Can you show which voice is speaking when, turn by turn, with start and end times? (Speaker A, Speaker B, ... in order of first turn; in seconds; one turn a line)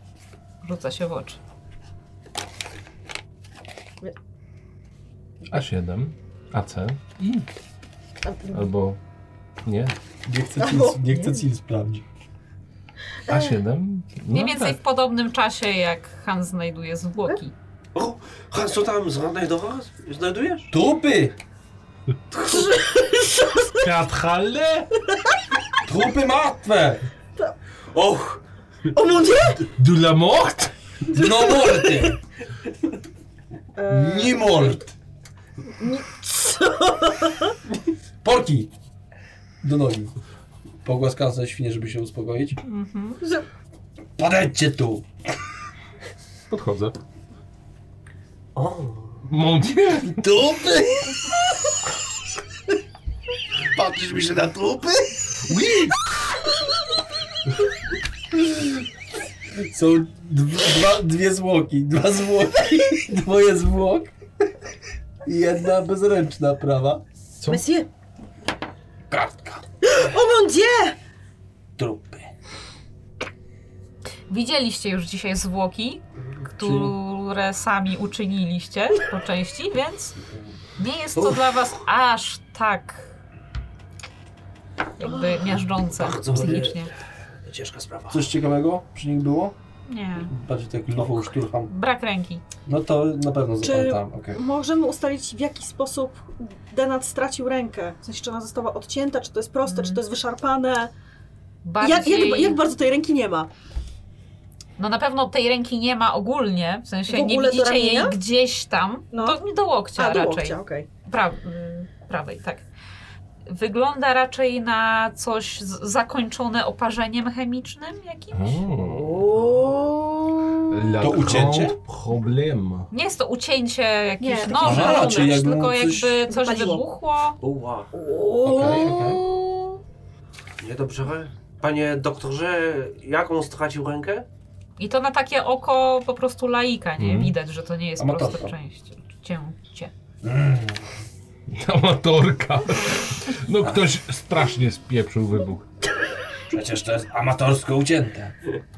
Speaker A: 0.6-1.4
Speaker B: 5.5-7.5
Speaker C: 8.2-8.7
Speaker B: 8.5-9.0
Speaker B: 9.6-9.9
Speaker D: 10.2-12.0
Speaker C: 10.6-11.4
Speaker C: 13.3-13.6
Speaker B: 13.3-14.8
Speaker A: 14.3-17.5
Speaker E: 17.9-20.7
Speaker D: 20.7-21.4
Speaker C: 22.4-23.7
Speaker B: 23.8-24.9
Speaker D: 25.8-27.0
Speaker E: 27.9-28.4
Speaker C: 28.9-29.6
Speaker B: 29.6-30.7
Speaker D: 31.1-32.2
Speaker C: 31.1-32.1
Speaker C: 33.8-34.7
Speaker D: 33.9-34.9
Speaker C: 35.8-37.5
Speaker D: 38.2-38.7
Speaker D: 39.6-40.1
Speaker D: 40.8-42.6
Speaker A: 42.6-43.2
Speaker D: 44.2-45.1
Speaker B: 46.5-47.0
Speaker E: 48.5-49.2
Speaker B: 49.2-50.3
Speaker D: 50.0-51.2
Speaker D: 53.7-55.2
Speaker B: 55.4-56.0
Speaker D: 59.5-64.1
Speaker D: 65.2-67.0
Speaker C: 67.4-67.9
Speaker D: 69.1-69.6
Speaker C: 69.8-71.0
Speaker D: 71.8-72.3
Speaker A: 74.3-80.1
Speaker D: 76.6-76.9
Speaker A: 80.8-83.1
Speaker E: 81.2-81.4
Speaker A: 85.0-86.9
Speaker C: 85.0-85.5
Speaker E: 85.9-86.9
Speaker D: 86.3-86.7
Speaker E: 87.5-88.3
Speaker D: 88.1-89.5
Speaker A: 89.9-90.3
Speaker D: 90.3-91.7
Speaker A: 91.0-92.4
Speaker D: 92.6-94.4
Speaker C: 93.6-100.9
Speaker A: 99.6-100.0
Speaker A: 101.6-102.6
Speaker C: 101.8-103.5
Speaker A: 104.8-112.6
Speaker C: 107.1-108.2
Speaker C: 109.1-109.4
Speaker C: 109.9-110.9
Speaker A: 113.5-118.6
Speaker B: 118.3-119.2
Speaker C: 118.8-120.9
Speaker B: 120.7-122.9
Speaker D: 121.0-121.8
Speaker E: 121.1-121.5
Speaker A: 122.9-127.4
Speaker C: 124.2-125.4
Speaker D: 124.6-126.2
Speaker C: 126.3-126.8
Speaker E: 127.4-127.9
Speaker C: 127.9-129.8
Speaker D: 128.4-129.2
Speaker E: 130.6-134.2
Speaker A: 134.8-139.9
Speaker B: 137.0-137.3
Speaker D: 138.0-138.5
Speaker D: 140.2-140.9
Speaker B: 141.5-145.7
Speaker D: 146.5-148.3